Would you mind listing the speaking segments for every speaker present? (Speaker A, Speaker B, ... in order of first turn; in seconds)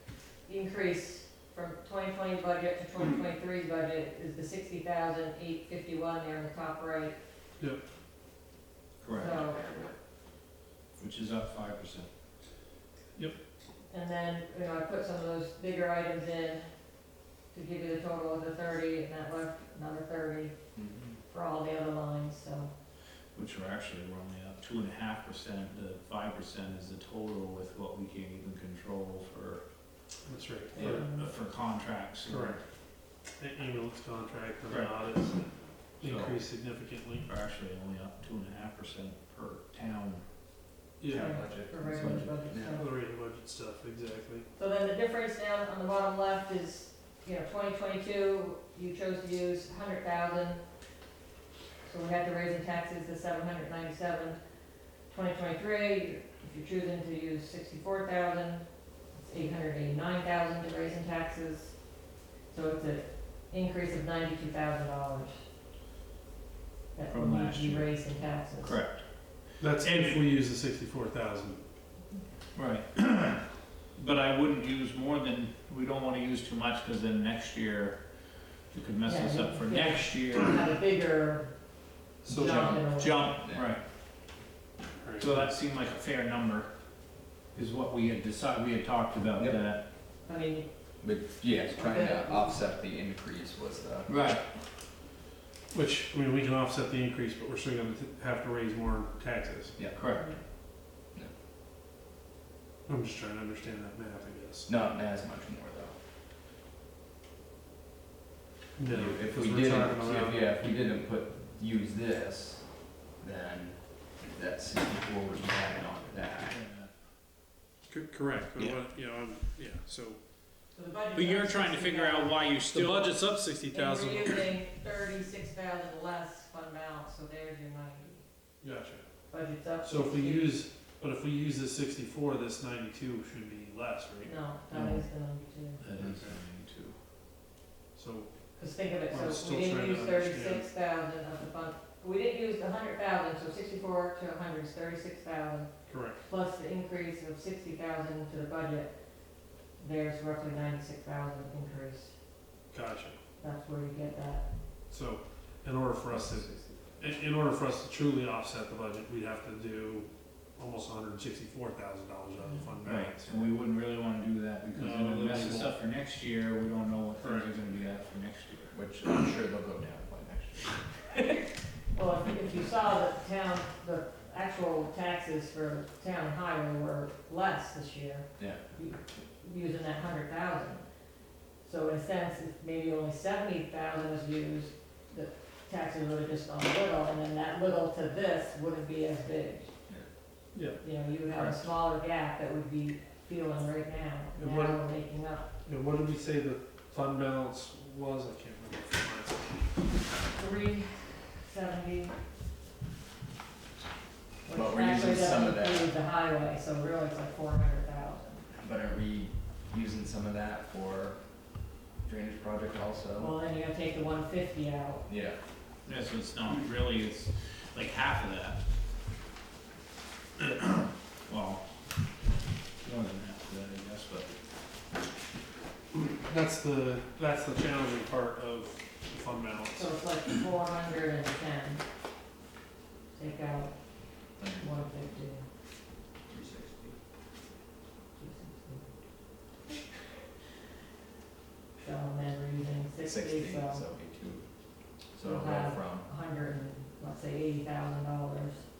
Speaker A: 0.4-7.2, 9.2-9.7, 13.9-16.6, 17.5-20.5, 21.3-22.7, 30.7-31.3, 41.1-42.9, 44.5-50.6, 51.9-54.4, 55.1-61.8, 62.5-65.3, 66.9-68.8, 79.0-81.5, 82.3-83.4, 90.2-90.7, 91.8-92.6, 100.1-100.4, 120.7-122.5, 123.7-128.2, 129.3-130.6, 134.2-135.8, 138.6-148.9, 149.8-152.1, 153.4-154.4, 171.9-180.8, 181.6-189.7, 190.8-195.4, 200.3-202.1, 204.4-208.4, 213.2-215.0, 229.7-231.8, 233.1-233.8, 234.3-235.4, 238.2-238.9, 241.8-243.8, 245.2-248.6
Speaker B: 9.0-9.4, 10.9-12.1, 23.3-29.6, 30.8-32.6, 36.0-36.4, 37.2-40.2, 41.1-42.3, 67.1-67.9, 68.6-69.0, 69.8-70.2, 72.5-73.4, 73.9-78.0, 78.7-80.7, 82.9-83.8, 85.2-86.7, 87.5-89.8, 94.1-94.4, 99.9-100.2, 116.4-116.9, 121.1-123.1, 134.7-135.0, 135.8-136.9, 162.8-168.7, 215.8-218.6, 220.4-221.6, 222.8-224.3
Speaker C: 20.7-21.2, 41.1-42.8, 82.3-83.7, 91.0-94.2, 104.7-106.0, 108.9-116.6, 156.1-156.9, 168.7-171.0, 178.4-178.6, 204.5-205.9, 208.6-211.2, 212.0-213.3, 215.1-215.4, 234.4-234.7, 236.3-236.9, 243.0-244.4, 245.1-246.1
Speaker D: 30.2-31.1, 32.3-32.6, 33.4-35.5, 36.0-37.3, 41.0-41.3, 42.7-44.5, 69.6-71.6, 82.2-82.8, 85.0-85.5, 95.7-99.7, 102.9-104.7, 108.8-110.5, 117.9-120.2, 122.7-124.5, 128.6-129.0, 129.8-134.3, 136.0-136.4, 137.9-138.3, 139.0-140.7, 145.9-146.2, 152.7-153.2, 154.9-163.5, 164.7-165.7, 167.2-167.6, 190.5-190.8, 194.4-194.8, 195.6-199.7, 225.9-229.9